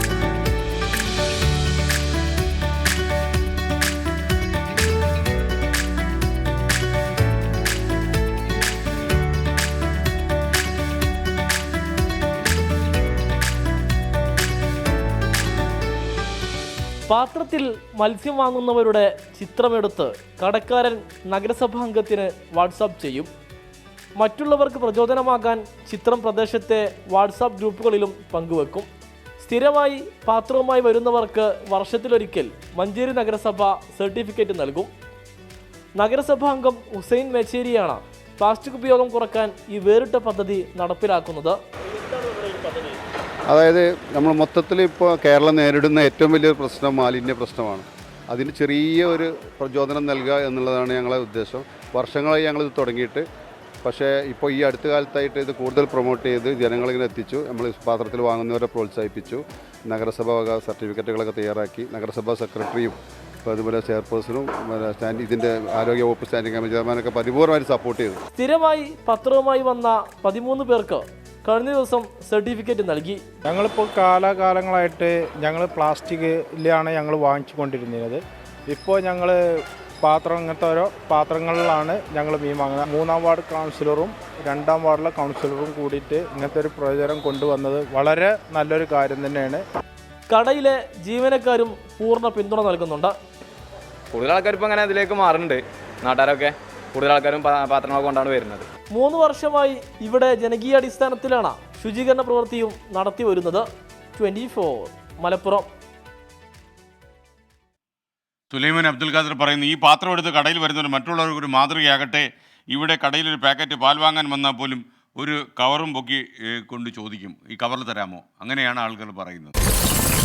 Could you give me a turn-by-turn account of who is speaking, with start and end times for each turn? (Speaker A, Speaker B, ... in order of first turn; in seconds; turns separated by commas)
Speaker A: 17.1-23.3, Speaker A: 24.2-28.9, Speaker A: 29.4-34.9, Speaker A: 36.0-43.0, Speaker B: 43.5-53.2, Speaker B: 53.8-68.2, Speaker A: 68.3-73.2, Speaker C: 73.5-79.4, Speaker C: 80.0-89.6, Speaker A: 90.3-93.1, Speaker D: 94.1-98.7, Speaker A: 98.9-103.7, Speaker A: 104.2-105.7, Speaker E: 108.5-119.5